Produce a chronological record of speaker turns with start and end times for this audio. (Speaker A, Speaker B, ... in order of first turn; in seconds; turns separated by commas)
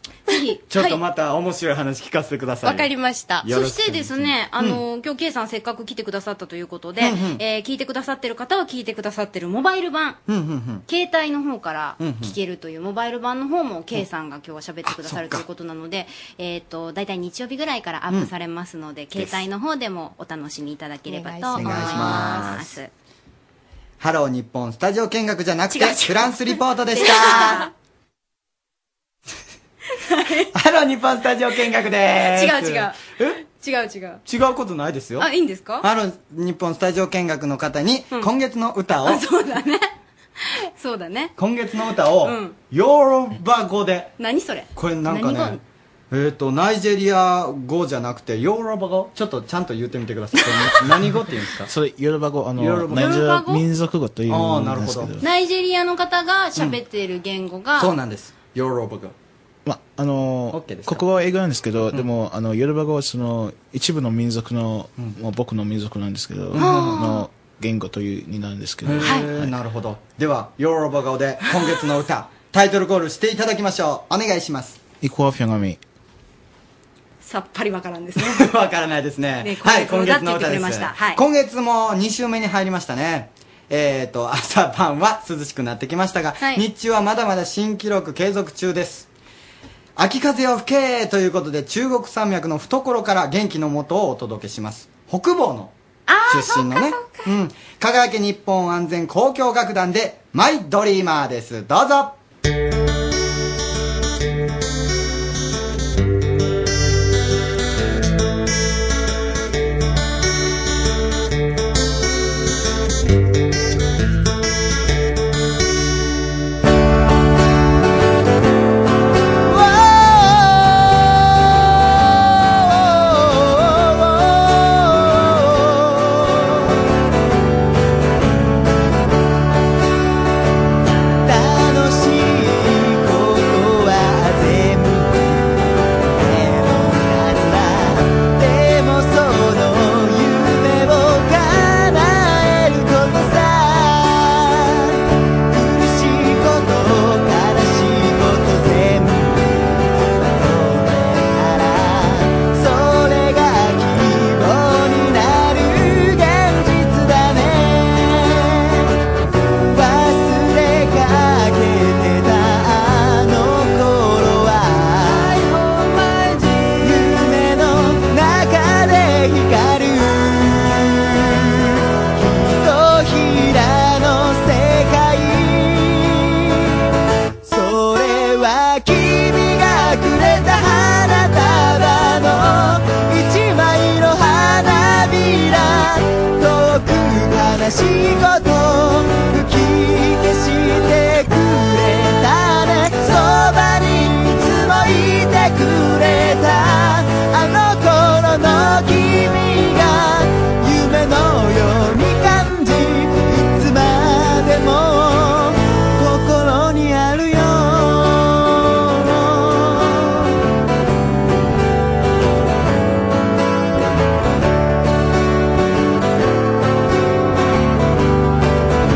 Speaker A: 0.3-1.0, Speaker B: 0.7-2.9, Speaker C: 2.6-3.5, Speaker B: 3.4-4.8, Speaker A: 3.5-10.2, Speaker B: 7.0-7.4, Speaker B: 10.3-10.9, Speaker A: 10.9-22.9, Speaker B: 12.0-12.3, Speaker B: 14.8-15.4, Speaker B: 19.1-19.4, Speaker C: 21.1-22.5, Speaker B: 21.6-22.7, Speaker B: 24.0-27.7, Speaker A: 25.7-26.4, Speaker A: 26.9-27.7, Speaker A: 30.1-30.5, Speaker B: 30.5-33.4, Speaker A: 32.3-34.2, Speaker B: 34.3-35.3, Speaker A: 35.2-35.9, Speaker B: 35.8-39.2, Speaker A: 39.0-39.9, Speaker A: 40.5-41.3, Speaker B: 41.4-44.1, Speaker A: 42.2-42.5, Speaker A: 44.2-45.6, Speaker B: 44.8-45.6, Speaker B: 46.1-51.7, Speaker D: 51.7-55.2, Speaker B: 52.6-53.2, Speaker A: 53.0-53.6, Speaker B: 54.3-55.1, Speaker A: 55.2-57.9, Speaker B: 57.8-59.1, Speaker D: 59.7-69.5, Speaker B: 60.5-61.0, Speaker B: 66.5-67.0, Speaker A: 66.6-67.3, Speaker B: 68.8-74.8, Speaker D: 75.0-75.8, Speaker A: 77.2-78.5, Speaker B: 78.2-89.1, Speaker A: 79.4-81.2, Speaker B: 90.0-95.7, Speaker A: 96.1-97.3, Speaker B: 96.3-102.2, Speaker E: 119.5-126.8, Speaker E: 131.2-135.3, Speaker E: 136.1-145.0, Speaker E: 145.5-158.9, Speaker E: 159.7-165.8, Speaker E: 166.4-176.9, Speaker E: 177.4-210.3